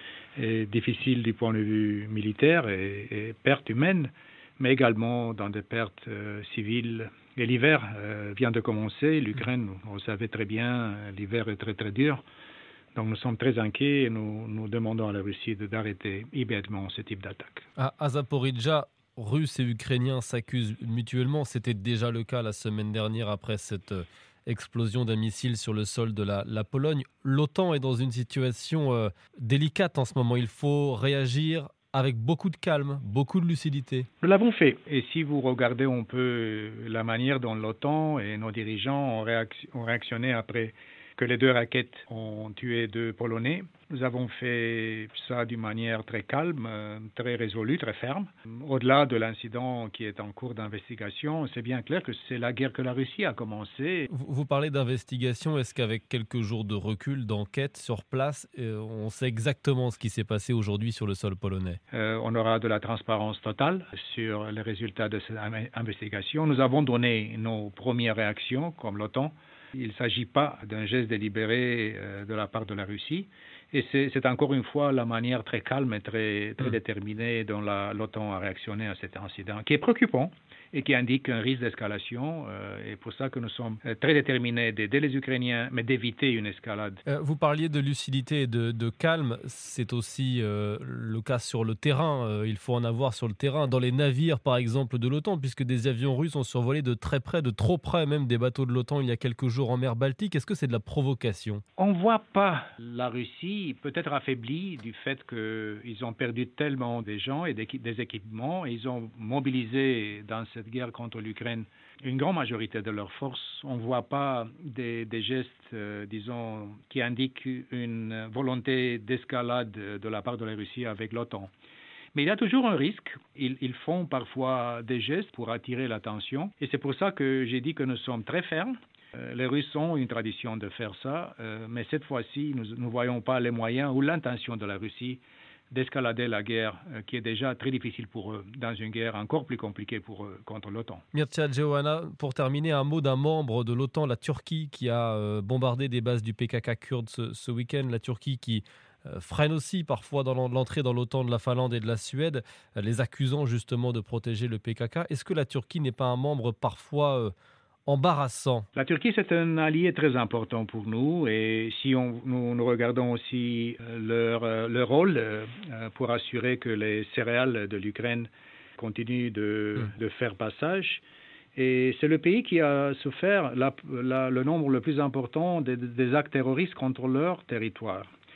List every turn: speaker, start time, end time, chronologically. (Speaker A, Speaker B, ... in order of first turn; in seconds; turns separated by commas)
Speaker A: 0.3-12.2, Speaker A: 12.9-17.6, Speaker B: 17.8-34.1, Speaker A: 34.2-54.1, Speaker B: 54.1-61.8, Speaker A: 61.9-87.0, Speaker B: 87.1-101.6, Speaker A: 101.8-121.5, Speaker A: 122.1-141.0, Speaker B: 141.1-157.3, Speaker B: 157.9-158.7, Speaker A: 158.7-171.0, Speaker A: 171.5-178.1